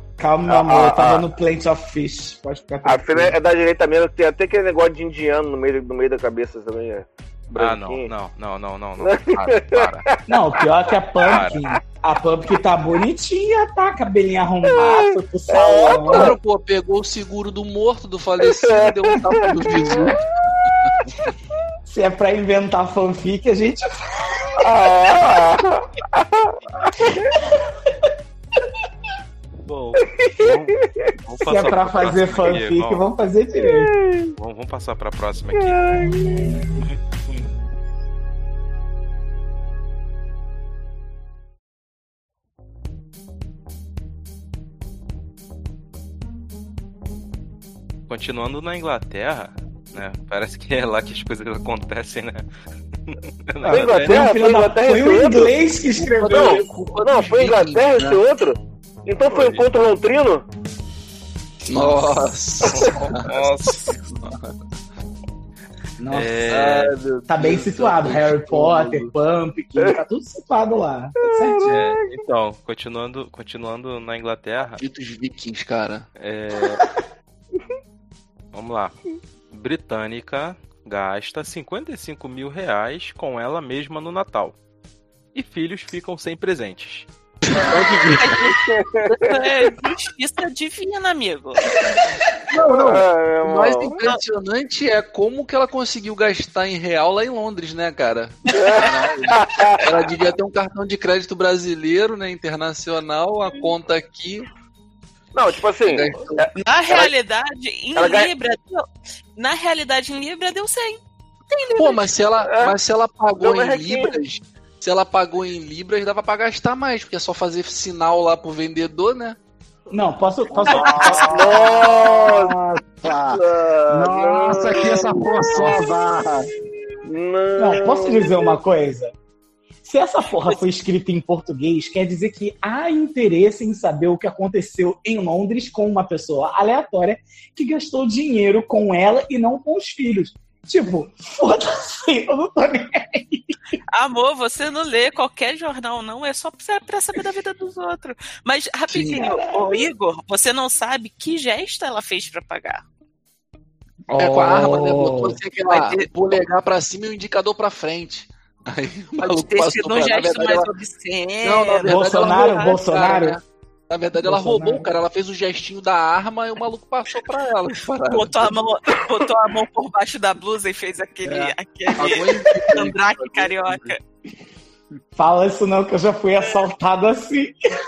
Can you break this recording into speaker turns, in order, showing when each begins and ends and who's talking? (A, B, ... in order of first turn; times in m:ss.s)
0:00.2-0:03.4 A
0:00.5-0:01.2 B
0:02.8-0:08.1 B
0:07.6-0:10.1 C
0:09.0-0:09.9 B
0:10.3-0:16.3 A
0:11.2-0:11.6 C
0:14.8-0:16.4 B
0:16.1-0:20.9 D
0:18.4-0:20.1 B
0:21.9-0:24.5 A
0:24.6-0:26.5 B
0:29.7-0:33.1 C
0:30.2-0:31.1 B
0:31.4-0:33.9 A
0:33.6-0:34.3 B
0:34.4-0:35.8 C
0:35.6-0:36.5 B
0:48.1-0:52.5 C
0:53.1-0:54.2 C
0:53.6-0:56.6 A
0:53.7-0:55.6 B
0:56.0-0:58.2 D
0:56.2-1:00.5 B
0:59.3-0:59.7 C
1:01.6-1:04.4 D
1:02.6-1:04.3 C
1:06.0-1:06.4 A
1:06.1-1:06.9 C
1:06.5-1:09.1 D
1:07.3-1:11.8 A
1:11.3-1:12.0 B
1:11.7-1:14.8 C
1:14.6-1:16.1 D
1:16.2-1:16.8 C
1:18.5-1:19.0 C
1:19.5-1:24.6 C
1:25.3-1:27.1 C
1:27.5-1:28.5 D
1:27.8-1:28.6 E
1:28.5-1:29.4 B
1:29.2-1:31.6 E
1:32.5-1:44.5 D
1:32.6-1:34.0 B
1:38.5-1:40.1 B
1:45.3-1:47.1 B
1:45.8-1:46.5 D
1:46.5-1:52.1 E
1:48.0-1:48.3 B
1:51.8-1:59.4 D
1:52.4-1:52.8 B
1:53.4-1:54.1 B
1:59.9-2:01.6 A
2:00.5-2:06.5 F
2:00.7-2:01.2 E
2:01.2-2:02.5 B
2:03.2-2:05.6 B
2:07.0-2:08.6 B
2:07.6-2:09.1 A
2:09.8-2:23.5 A
2:23.9-2:32.8 E
2:28.9-2:29.3 D
2:29.2-2:29.8 A
2:34.1-2:35.4 A
2:34.2-2:40.7 D
2:35.7-2:36.1 E
2:39.2-2:42.8 E
2:41.4-2:48.5 D
2:41.9-2:43.4 A
2:44.2-2:44.9 A
2:48.1-2:54.0 E
2:51.2-2:53.9 D
2:55.2-2:57.6 A